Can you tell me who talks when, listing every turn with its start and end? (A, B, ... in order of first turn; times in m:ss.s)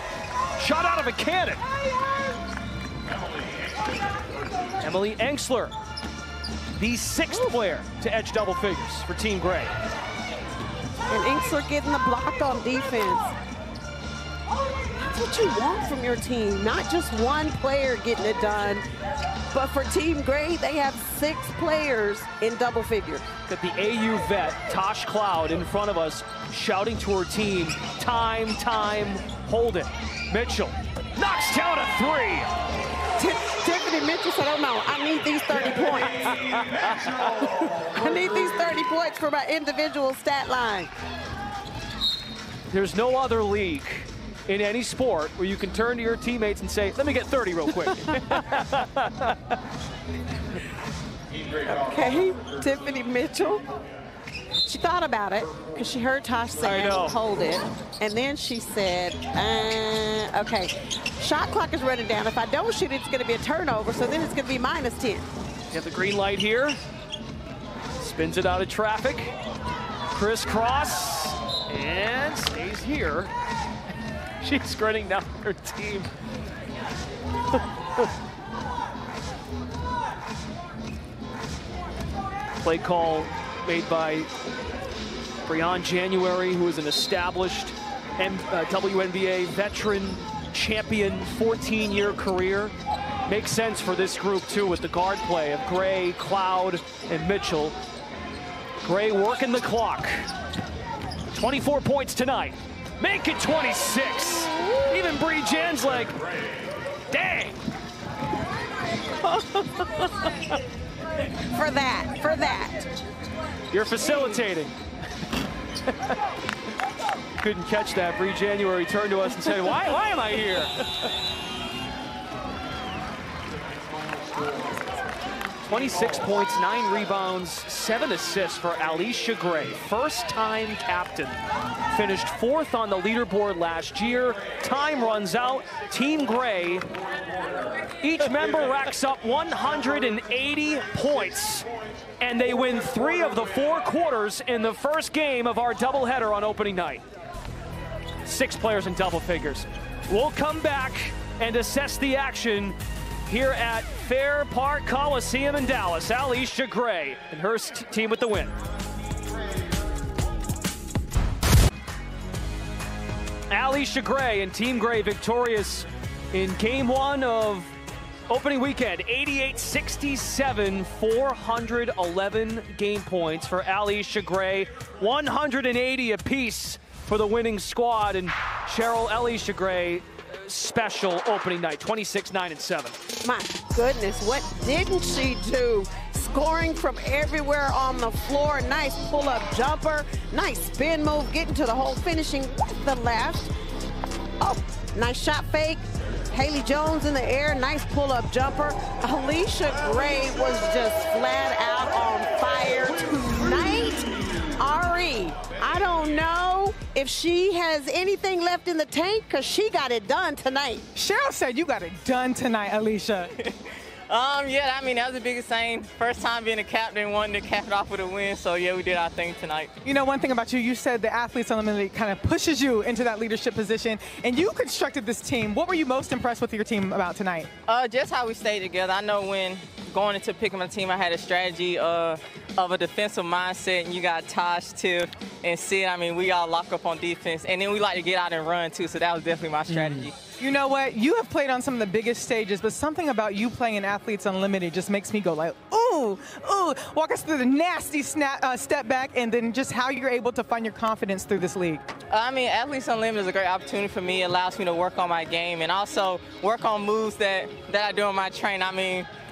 0:00.6-0:01.6 A
0:04.8-0:05.8 A
0:06.8-0:09.7 A
0:11.1-0:13.3 B
0:15.0-0:18.8 B
0:19.5-0:23.3 B
0:23.5-0:32.5 A
0:33.2-0:36.5 B
0:36.5-0:37.2 A
0:37.6-0:40.9 B
0:42.7-0:49.5 A
0:51.6-0:53.6 B
0:54.6-1:05.3 B
0:56.6-0:57.2 A
1:05.7-1:06.8 A
1:08.0-1:09.4 A
1:10.1-1:13.3 A
1:14.4-1:16.1 A
1:22.6-1:24.3 A
1:25.5-1:32.7 A
1:33.3-1:37.8 A
1:38.8-1:40.3 A
1:41.3-1:46.2 A
1:47.1-1:47.6 A
1:51.5-1:52.9 B
1:53.7-1:54.8 A
1:55.9-1:56.1 A
1:57.4-2:00.7 A
2:05.6-2:16.8 A
2:18.0-2:21.7 A
2:22.2-2:27.0 A
2:28.2-2:32.8 A
2:33.3-2:38.5 A
2:43.5-2:47.7 A
2:48.3-3:03.0 A
3:03.2-3:13.5 B
3:14.4-3:30.8 B
3:31.0-3:33.3 C
3:34.1-3:39.7 D
3:39.8-3:47.5 C
3:47.7-4:00.2 D
3:59.7-4:00.1 A
4:00.2-4:11.9 C
4:12.1-4:19.1 D